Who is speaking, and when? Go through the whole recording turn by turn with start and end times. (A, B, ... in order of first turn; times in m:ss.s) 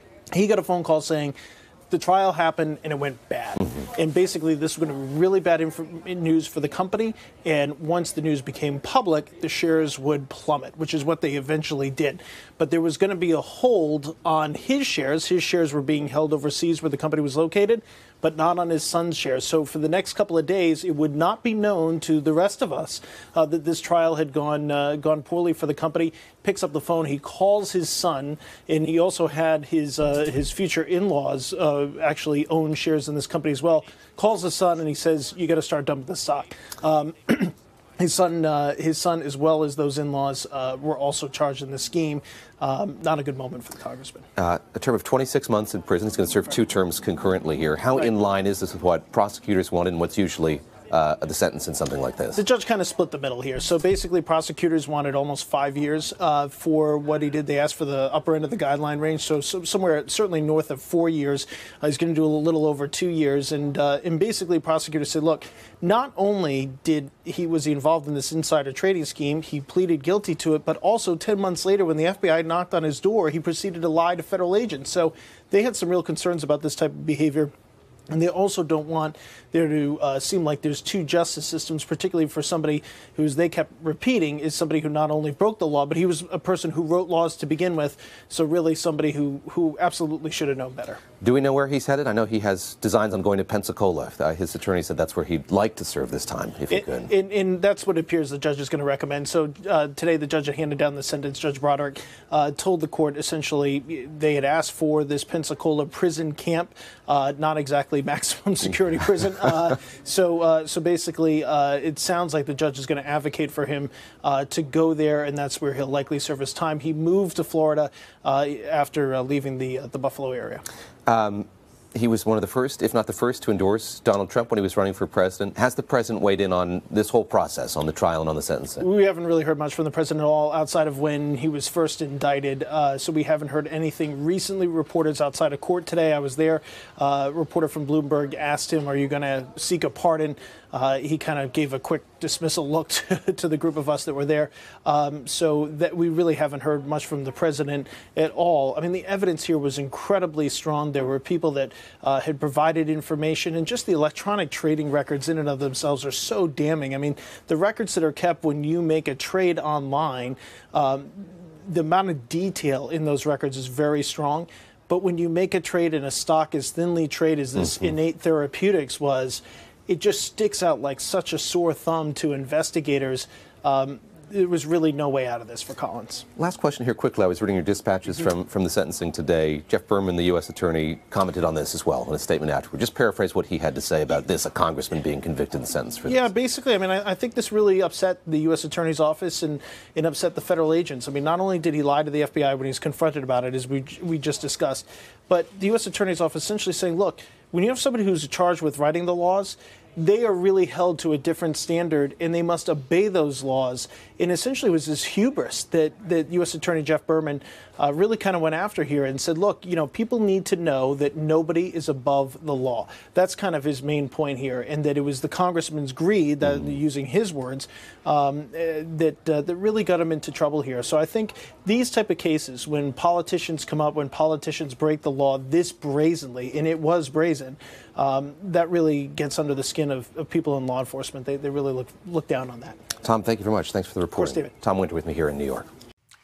0:00.3-0:01.3 A
0:01.9-0:44.2 A
0:44.4-0:52.4 B
0:52.3-1:17.5 A
1:18.1-1:31.0 A
1:31.2-1:37.1 B
1:36.7-2:00.6 A
2:01.0-2:08.8 B
2:08.8-2:56.2 A
2:56.4-3:06.3 B
3:06.0-3:52.8 A
3:53.0-3:55.6 B
3:54.1-3:54.5 A